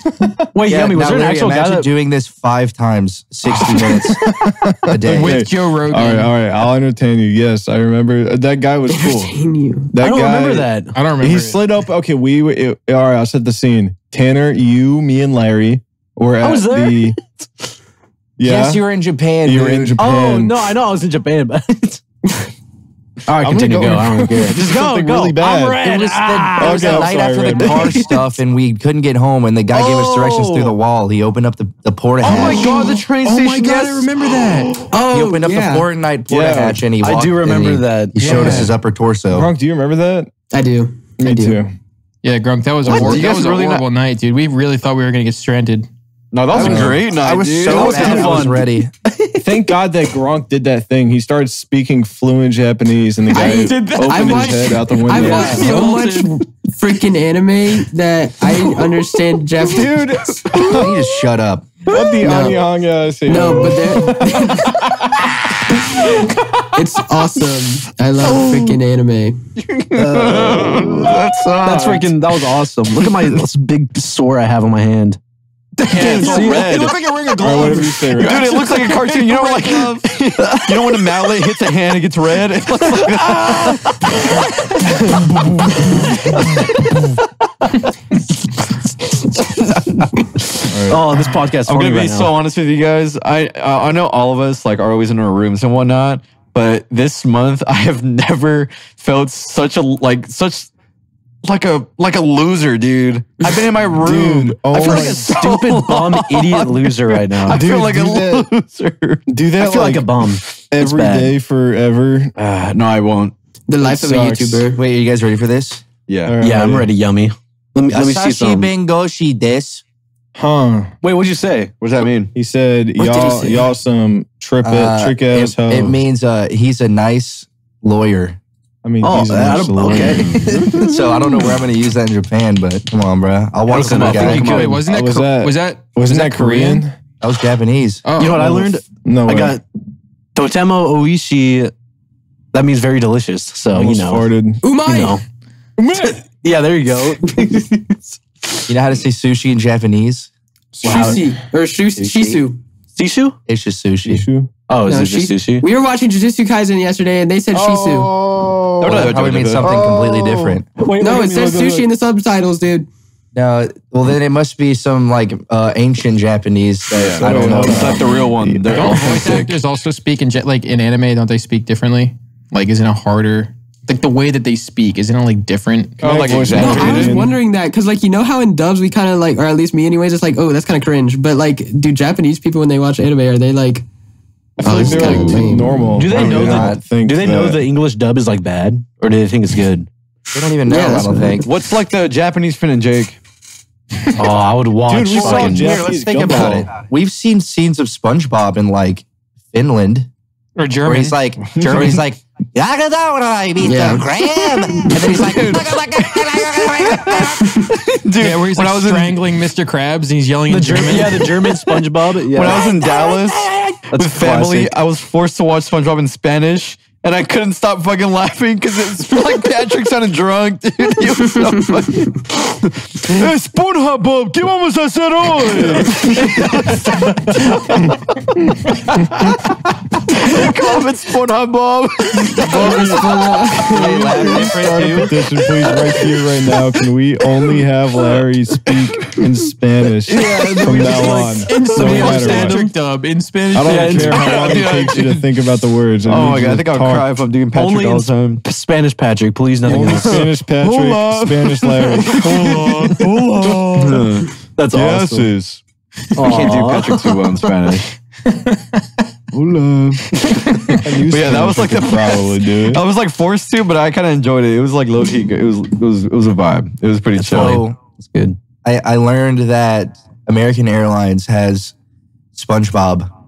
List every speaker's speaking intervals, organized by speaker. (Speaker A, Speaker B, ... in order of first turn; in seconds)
Speaker A: 0.5-1.9, 10.0-10.9, 16.4-17.5, 20.0-22.0, 23.3-28.2, 29.7-30.7, 32.2-33.0, 37.0-38.7, 47.7-48.6, 55.2-55.6, 70.1-70.7, 71.6-75.2, 75.8-80.7, 82.8-83.7, 84.9-85.2, 90.8-92.3, 104.7-107.6, 109.6-111.3, 116.4-118.7, 121.0-121.7, 129.0-131.0, 133.7-134.8, 138.2-139.6, 140.3-141.7, 142.5-144.2, 144.8-145.2, 146.0-148.7, 150.8-151.2, 152.9-153.3, 154.7-155.6, 176.5-177.0, 185.0-185.3, 185.9-189.9, 194.2-195.7, 210.5-212.7, 213.9-214.7, 240.1-242.7, 243.6-244.3, 247.5-250.2, 254.6-255.2, 256.1-257.2, 267.1-268.4
Speaker B: 0.6-4.3, 4.8-5.4, 18.4-20.0, 25.8-32.9, 35.1-39.5, 42.9-43.3, 46.5-48.9, 60.5-61.7, 114.8-115.9, 117.9-119.8, 124.6-128.4, 130.7-134.8, 137.2-138.0, 148.7-150.3, 153.5-154.2, 158.8-160.7, 163.3-168.2, 186.0-186.8, 190.3-191.4, 195.2-200.1, 200.8-207.6, 214.2-214.6, 233.7-235.1, 267.3-267.8, 268.6-271.7, 272.3-273.1
Speaker C: 3.8-9.3, 9.9-10.7, 11.2-17.1, 18.4-18.9, 19.4-20.5, 23.4-25.8, 26.5-27.9, 36.3-36.8, 38.2-38.7, 39.3-40.3, 41.2-41.7, 46.5-47.0, 49.4-55.8, 59.7-61.0, 61.9-65.2, 70.1-71.3, 75.9-78.7, 90.7-91.3, 104.0-105.3, 107.5-108.5, 109.3-110.1, 110.7-112.3, 113.8-114.6, 116.2-116.9, 120.3-120.9, 122.3-126.0, 128.8-130.4, 134.9-137.0, 138.3-139.6, 143.7-144.6, 145.8-146.2, 150.7-151.3, 154.0-154.5, 157.5-161.9, 167.1-169.0, 176.0-177.3, 184.6-187.6, 194.9-196.7, 225.4-226.0, 233.6-242.7, 243.5-247.1, 249.7-254.2, 254.7-255.6, 260.8-262.8
Speaker D: 5.0-6.3, 10.9-11.6, 33.2-34.6, 38.2-38.6, 42.2-45.9, 53.4-54.4, 134.1-136.8, 138.0-138.4, 168.7-176.0, 200.6-201.6, 208.2-211.4, 241.4-244.3, 258.3-258.6
Speaker E: 8.9-9.9, 34.9-35.9, 40.5-41.6, 53.3-60.6, 62.2-62.6, 63.3-64.8, 66.7-69.4, 113.7-114.8, 144.6-145.2, 150.8-152.6, 154.8-158.2, 161.0-162.9, 176.5-183.8, 184.6-185.9, 190.7-191.4, 203.6-204.1, 232.5-233.7
Speaker F: 32.2-34.9, 42.9-43.8, 46.3-48.6, 53.9-56.3, 68.2-68.8, 69.6-72.1, 73.0-73.3, 75.9-84.3, 85.1-85.5, 91.7-100.7, 101.4-109.2, 112.3-113.3, 116.1-116.3, 121.8-122.3, 130.1-130.4, 133.8-134.1, 158.8-159.8, 166.9-169.6, 176.0-177.2, 191.4-193.2, 205.1-205.7, 206.6-209.2, 212.3-229.5, 230.1-234.9, 244.1-245.2, 246.1-248.4, 249.7-255.3, 256.2-257.9, 259.3-267.6